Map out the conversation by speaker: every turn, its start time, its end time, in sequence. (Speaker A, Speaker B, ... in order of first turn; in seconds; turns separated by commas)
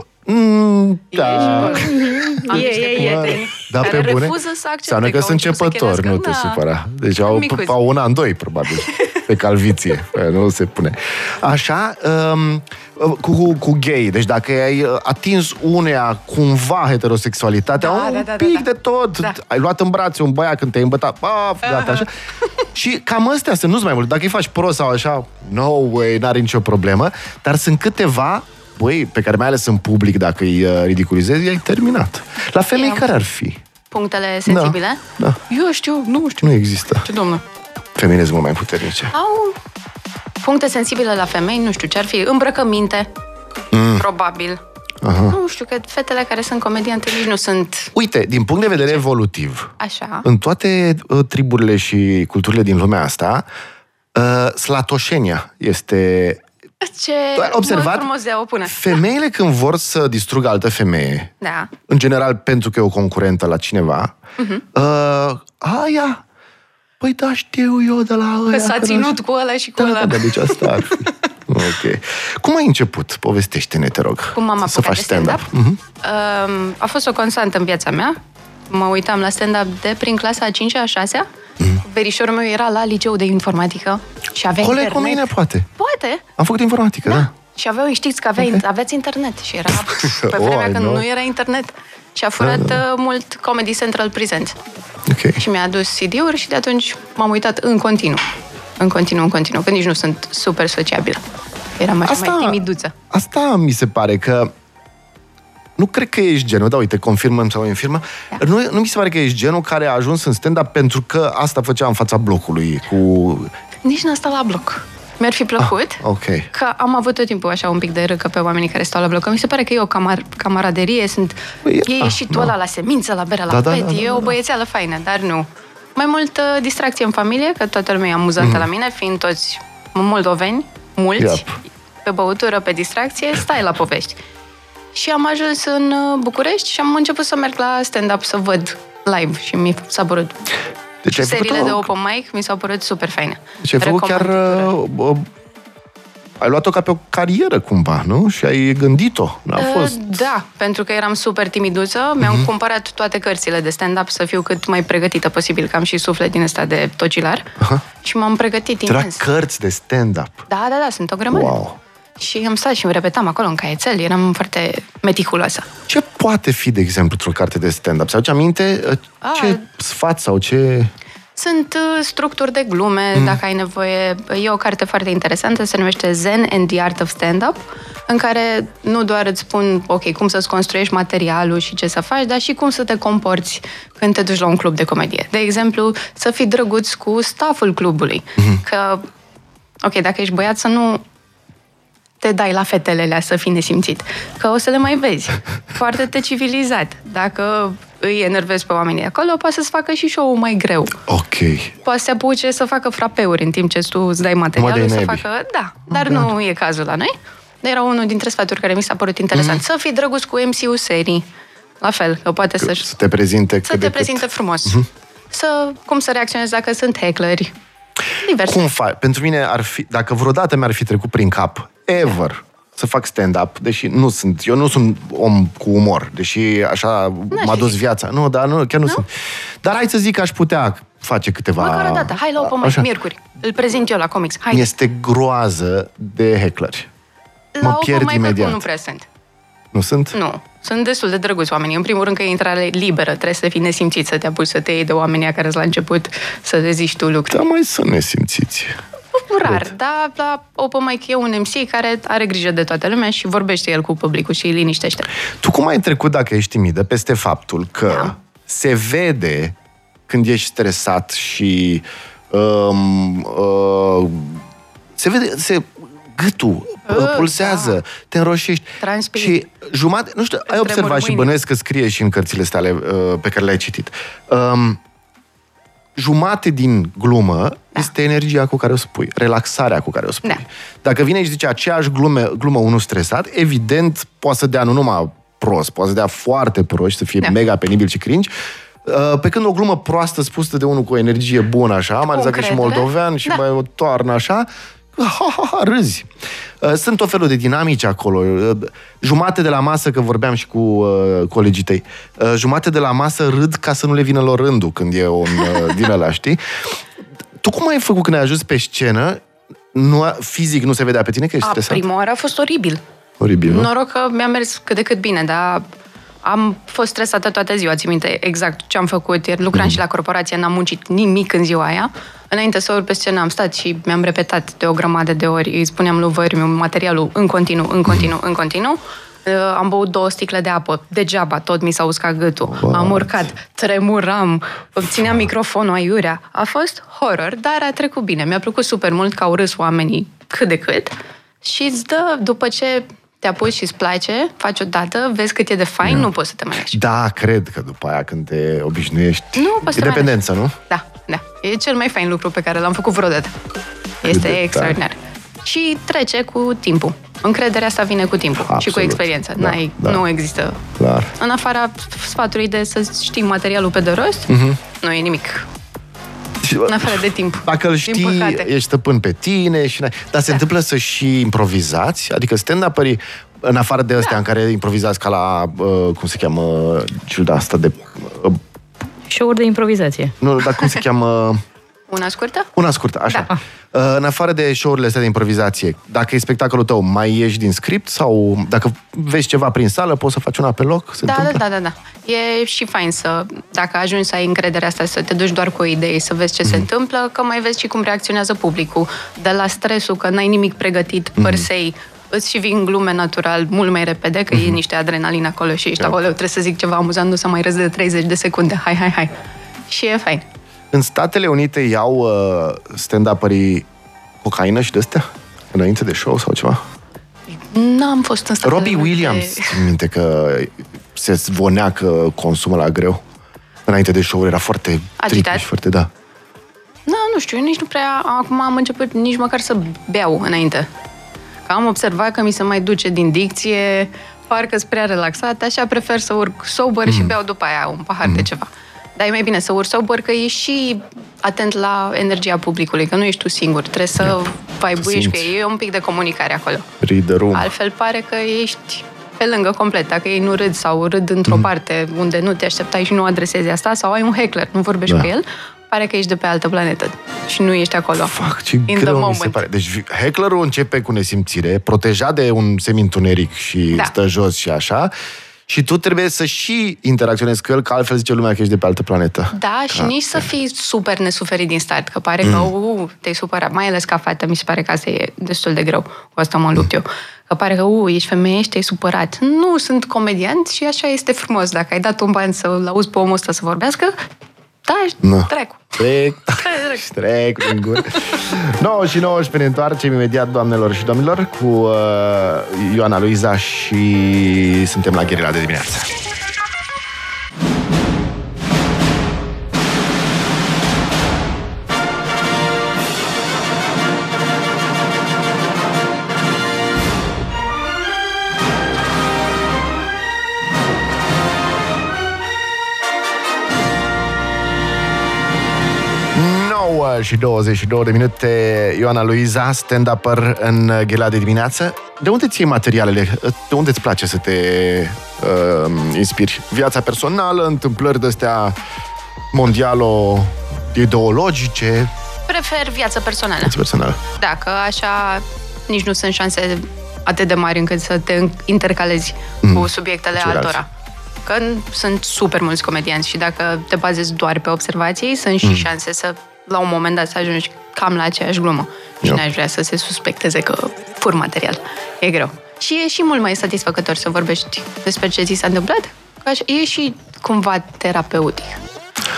Speaker A: 0.2-22.1, Speaker B: 1.1-6.6, Speaker C: 1.4-3.4, Speaker B: 7.2-7.8, Speaker B: 8.9-9.2, Speaker B: 17.8-18.7, Speaker B: 21.7-22.0, Speaker A: 22.7-33.6, Speaker B: 32.7-33.1, Speaker B: 33.9-37.4, Speaker A: 34.5-35.4, Speaker A: 36.4-37.0, Speaker A: 38.0-39.1, Speaker B: 39.1-39.6, Speaker B: 40.4-43.1, Speaker A: 43.7-44.0, Speaker B: 43.9-44.6, Speaker A: 45.0-45.4, Speaker B: 45.3-47.9, Speaker A: 47.9-49.7, Speaker B: 48.7-49.0, Speaker B: 49.8-50.2, Speaker A: 50.2-53.5, Speaker A: 54.1-56.4, Speaker B: 56.8-59.0, Speaker A: 57.4-58.1, Speaker A: 58.6-61.3, Speaker B: 61.4-61.7, Speaker A: 61.9-64.2, Speaker B: 64.4-64.6, Speaker A: 64.7-66.2, Speaker A: 67.0-69.1, Speaker B: 68.5-71.2, Speaker A: 69.8-75.8, Speaker B: 74.3-75.5, Speaker B: 76.0-78.2, Speaker B: 78.7-81.3, Speaker B: 81.8-86.2, Speaker A: 84.6-85.7, Speaker A: 86.4-87.3, Speaker B: 87.0-94.6, Speaker A: 89.8-91.0, Speaker A: 92.4-92.8, Speaker A: 95.1-95.4, Speaker B: 95.4-98.3, Speaker B: 98.8-101.2, Speaker B: 101.8-102.9, Speaker A: 102.0-102.6, Speaker A: 103.1-104.5, Speaker A: 105.8-113.5, Speaker B: 113.8-131.5, Speaker A: 115.6-116.5, Speaker A: 121.6-122.5, Speaker A: 123.5-124.3, Speaker A: 128.4-128.7, Speaker A: 131.2-131.5, Speaker B: 132.0-134.2, Speaker B: 134.9-140.4, Speaker A: 141.0-141.9, Speaker B: 141.1-144.7, Speaker A: 143.6-145.3, Speaker A: 146.4-150.0, Speaker B: 149.6-159.2, Speaker A: 152.2-152.5, Speaker A: 158.8-160.4, Speaker B: 160.5-161.5, Speaker A: 161.3-161.8, Speaker B: 162.2-165.7, Speaker A: 165.9-170.9, Speaker B: 169.2-169.6, Speaker B: 171.3-189.0, Speaker A: 173.1-173.4, Speaker B: 189.8-191.0, Speaker B: 192.2-201.0, Speaker A: 201.1-201.7, Speaker B: 201.8-211.3, Speaker A: 204.6-205.2, Speaker A: 205.9-206.3, Speaker A: 209.3-209.6, Speaker B: 211.8-212.9, Speaker A: 212.6-214.9, Speaker B: 213.6-214.8, Speaker B: 215.3-217.5, Speaker B: 218.2-218.7, Speaker A: 218.4-229.1, Speaker B: 227.3-227.7, Speaker A: 229.6-232.9, Speaker B: 231.6-234.7, Speaker A: 234.5-236.9, Speaker B: 237.5-239.1, Speaker A: 237.6-238.6, Speaker A: 239.7-240.2, Speaker B: 240.1-247.4, Speaker A: 247.3-248.8, Speaker B: 249.1-255.1, Speaker A: 249.4-249.7, Speaker A: 255.4-259.5, Speaker B: 257.9-258.1, Speaker A: 260.1-264.4, Speaker A: 265.0-274.8, Speaker B: 266.9-267.8, Speaker B: 268.8-269.4, Speaker B: 270.5-271.4, Speaker A: 275.9-288.3, Speaker A: 288.8-296.1, Speaker B: 292.1-293.4, Speaker A: 296.6-306.4, Speaker A: 307.4-311.8, Speaker B: 311.4-312.8, Speaker A: 313.2-313.7, Speaker B: 313.4-315.6, Speaker B: 316.2-346.8, Speaker A: 319.5-319.8, Speaker A: 332.4-333.3, Speaker A: 345.8-346.1, Speaker A: 346.7-350.5, Speaker B: 349.4-353.3, Speaker B: 354.0-360.6, Speaker A: 354.0-354.8, Speaker A: 358.4-360.0, Speaker A: 360.8-361.1, Speaker B: 361.2-365.5, Speaker A: 364.3-364.6, Speaker A: 366.4-378.4, Speaker B: 366.6-368.5, Speaker C: 379.1-380.1, Speaker A: 380.2-381.4, Speaker B: 381.9-382.5, Speaker A: 382.6-391.4, Speaker B: 391.0-409.1, Speaker A: 401.2-401.5, Speaker A: 404.3-404.6, Speaker B: 409.7-410.2, Speaker A: 410.7-413.7, Speaker A: 414.2-416.6, Speaker B: 417.3-419.6, Speaker A: 418.4-423.0, Speaker A: 423.6-425.9, Speaker B: 425.0-425.4, Speaker B: 426.9-430.7, Speaker B: 431.4-446.7, Speaker A: 436.9-437.1, Speaker A: 444.8-445.3, Speaker A: 446.8-447.5, Speaker B: 447.3-458.1, Speaker A: 458.0-464.9, Speaker B: 458.7-459.4, Speaker A: 465.5-470.2, Speaker B: 469.3-483.9, Speaker A: 472.2-472.5, Speaker B: 484.6-486.9, Speaker A: 485.0-495.9, Speaker A: 516.1-528.6, Speaker A: 529.3-531.9, Speaker B: 532.3-533.5, Speaker A: 533.4-534.0, Speaker B: 534.2-540.7, Speaker A: 539.4-540.6, Speaker B: 541.2-558.6